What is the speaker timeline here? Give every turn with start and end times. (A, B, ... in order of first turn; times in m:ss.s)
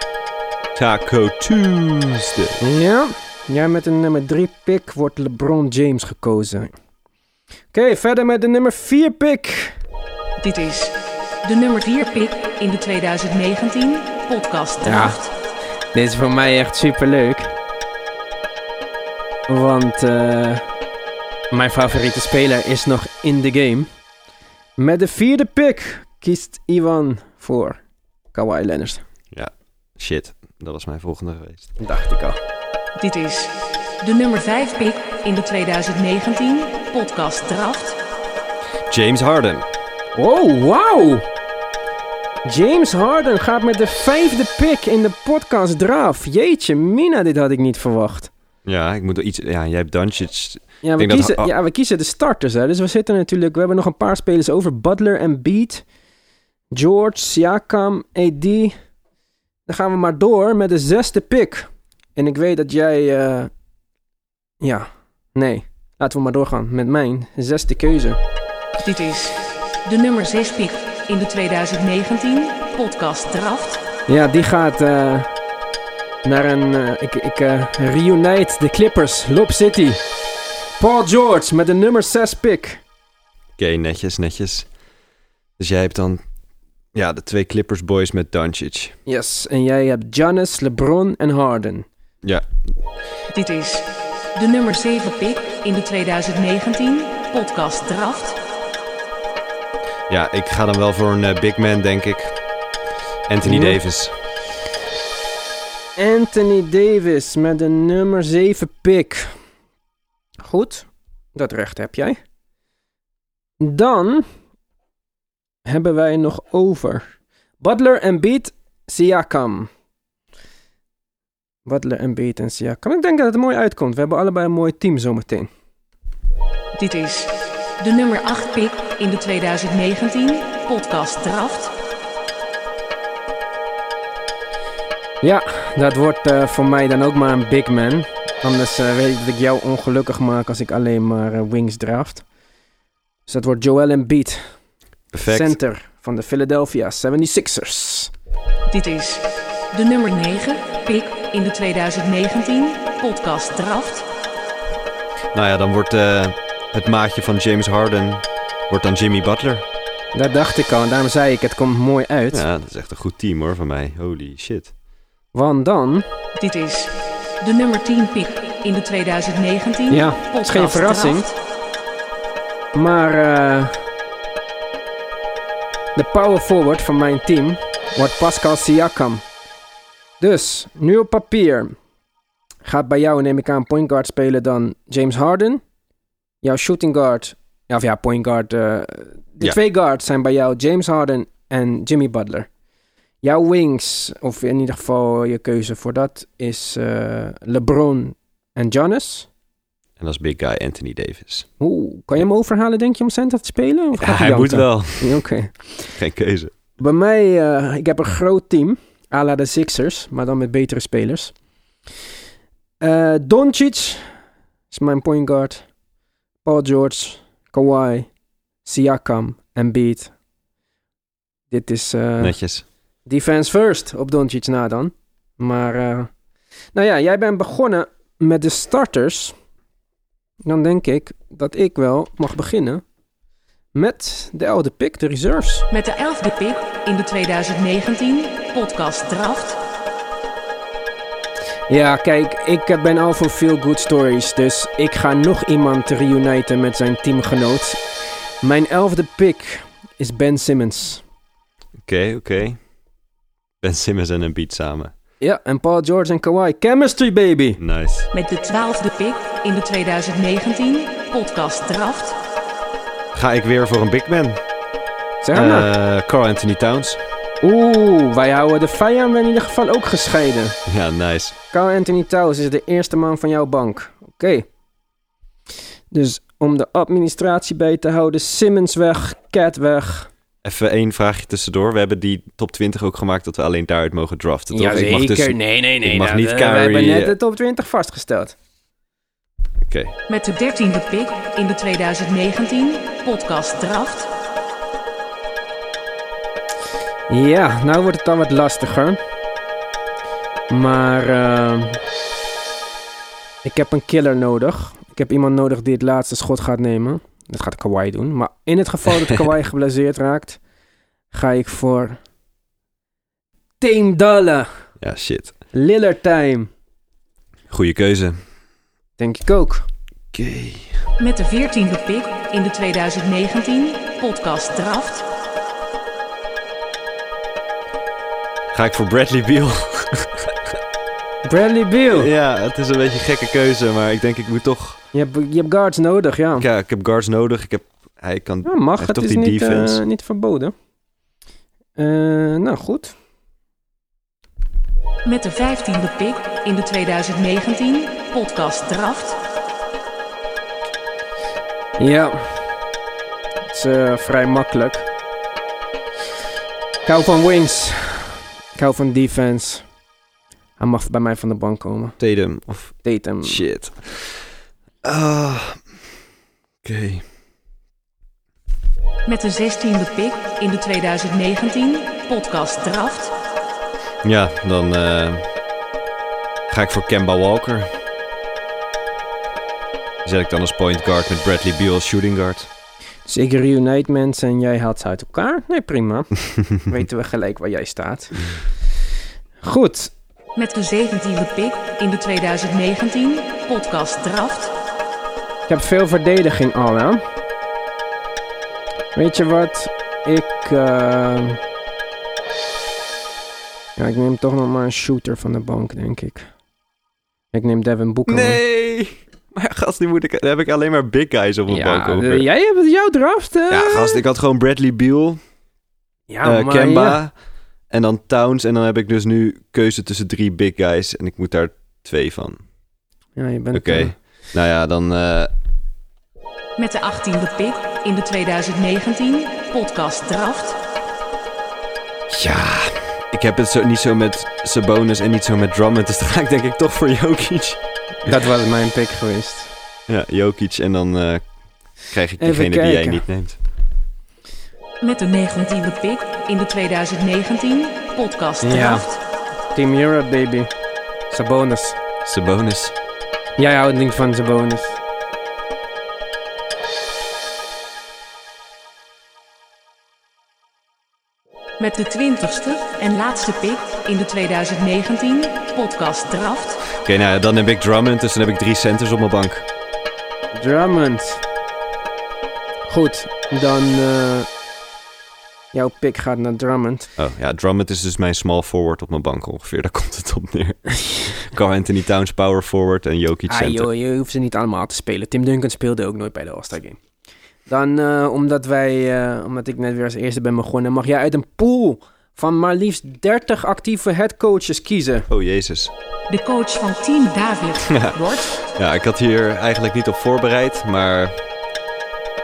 0:00.8-0:02.6 A
0:02.6-0:06.7 B
0:07.7-0:09.8 B
0:10.4-0:15.3 C
0:14.8-0:15.2 B
0:15.9-0:17.5 B
0:19.5-0:20.6 B
0:21.5-0:23.9 B
0:24.8-0:27.8 B
0:28.3-0:29.0 B
0:29.3-0:31.7 A
0:31.8-0:32.4 B
0:33.0-0:38.0 C
0:38.9-0:39.7 A
0:40.2-0:41.3 B
0:42.4-0:48.3 B
0:48.6-0:51.5 A
0:50.8-0:55.8 B
0:56.7-0:58.8 B
0:59.7-1:03.5 B
1:04.6-1:08.2 B
1:08.8-1:13.8 C
1:14.1-1:15.3 B
1:16.2-1:20.0 B
1:20.8-1:22.8 B
1:23.6-1:24.7 A
1:25.6-1:26.2 A
1:26.9-1:29.0 A
1:29.1-1:31.9 B
1:33.3-1:38.4 C
1:40.1-1:42.4 A
1:43.3-1:44.1 A
1:43.4-1:43.8 B
1:46.0-1:49.4 B
1:50.4-1:52.2 B
1:53.6-1:54.3 B
1:55.7-1:57.0 B
1:57.6-1:59.7 B
2:01.7-2:05.5 B
2:06.8-2:11.7 C
2:15.2-2:22.2 B
2:23.3-2:24.5 B
2:25.1-2:25.6 A
2:25.2-2:28.1 B
2:28.7-2:34.1 C
2:35.3-2:39.6 A
2:40.1-2:42.4 B
2:42.3-2:44.7 A
2:45.3-2:46.1 B
2:46.4-2:51.3 C
2:49.9-2:51.3 B
2:52.7-2:53.9 B
2:56.0-2:59.2 B
3:00.2-3:01.8 B
3:02.6-3:05.6 B
3:06.4-3:12.5 B
3:13.2-3:19.3 B
3:20.0-3:21.5 A
3:21.6-3:25.9 B
3:24.0-3:25.2 A
3:26.0-3:26.5 A
3:26.8-3:31.3 B
3:32.8-3:34.1 B
3:34.7-3:35.7 B
3:36.4-3:38.1 B
3:38.6-3:40.1 B
3:41.5-3:42.4 B
3:42.2-3:42.6 A
3:43.1-3:46.1 B
3:46.7-3:49.3 B
3:50.4-3:52.8 B
3:53.8-3:55.7 B
3:55.7-3:59.6 C
4:01.7-4:07.9 B
4:08.4-4:11.0 B
4:11.9-4:12.6 A
4:13.6-4:14.9 A
4:15.2-4:17.6 B
4:17.6-4:18.1 A
4:18.1-4:22.2 C
4:23.1-4:24.4 A
4:25.2-4:25.7 B
4:25.3-4:27.0 A
4:27.4-4:30.6 B
4:30.7-4:31.4 A
4:31.5-4:34.5 B
4:35.9-4:40.1 B
4:40.4-4:47.2 A
4:44.5-4:48.4 B
4:49.6-4:50.0 A
4:50.1-4:54.1 C
4:57.1-4:59.0 B
5:00.5-5:01.8 B
5:03.4-5:10.4 B
5:11.1-5:12.0 B
5:13.6-5:14.5 B
5:14.8-5:15.3 A
5:15.5-5:16.5 B
5:17.5-5:18.2 A
5:19.0-5:19.7 B
5:20.1-5:20.8 A
5:21.0-5:25.0 C
5:28.5-5:30.6 A
5:31.2-5:32.1 B
5:31.9-5:34.8 A
5:34.9-5:36.5 B
5:36.4-5:39.8 A
5:38.4-5:40.5 B
5:41.8-5:43.0 B
5:45.0-5:49.2 C
5:51.8-5:52.4 B
5:53.5-5:54.9 B
5:56.9-5:59.6 B
6:00.6-6:02.0 B
6:02.0-6:04.3 A
6:02.8-6:03.4 B
6:04.8-6:05.6 A
6:06.6-6:07.0 A
6:09.0-6:13.1 C
6:14.0-6:15.3 A
6:16.5-6:17.7 A
6:20.0-6:22.5 A
6:23.1-6:28.4 B
6:29.4-6:29.9 B
6:30.4-6:34.5 C
6:35.5-6:37.0 B
6:39.0-6:41.4 B
6:43.8-6:46.3 B
6:47.3-6:48.4 B
6:48.1-6:52.3 A
6:51.5-6:54.0 B
6:53.5-6:55.2 A
6:56.1-6:57.0 B
6:56.2-6:57.1 A
6:57.7-7:02.4 A
7:03.2-7:04.0 B
7:03.5-7:05.3 A
7:06.6-7:10.6 C
7:12.1-7:18.1 A
7:18.0-7:19.5 B
7:19.9-7:21.3 A
7:21.8-7:23.4 A
7:22.2-7:23.0 B
7:24.8-7:29.0 C
7:28.4-7:28.9 B
7:29.6-7:30.5 B
7:31.1-7:31.8 B
7:32.0-7:32.7 A
7:33.4-7:34.8 B
7:41.6-7:46.6 C
7:46.8-7:49.5 A
7:50.4-7:51.2 B
7:52.7-7:54.3 B
7:55.5-7:56.9 B
7:57.0-8:03.7 A
8:03.3-8:06.8 B
8:07.5-8:15.1 B
8:15.1-8:15.7 A
8:16.1-8:18.4 C
8:17.7-8:18.0 A
8:18.5-8:21.2 A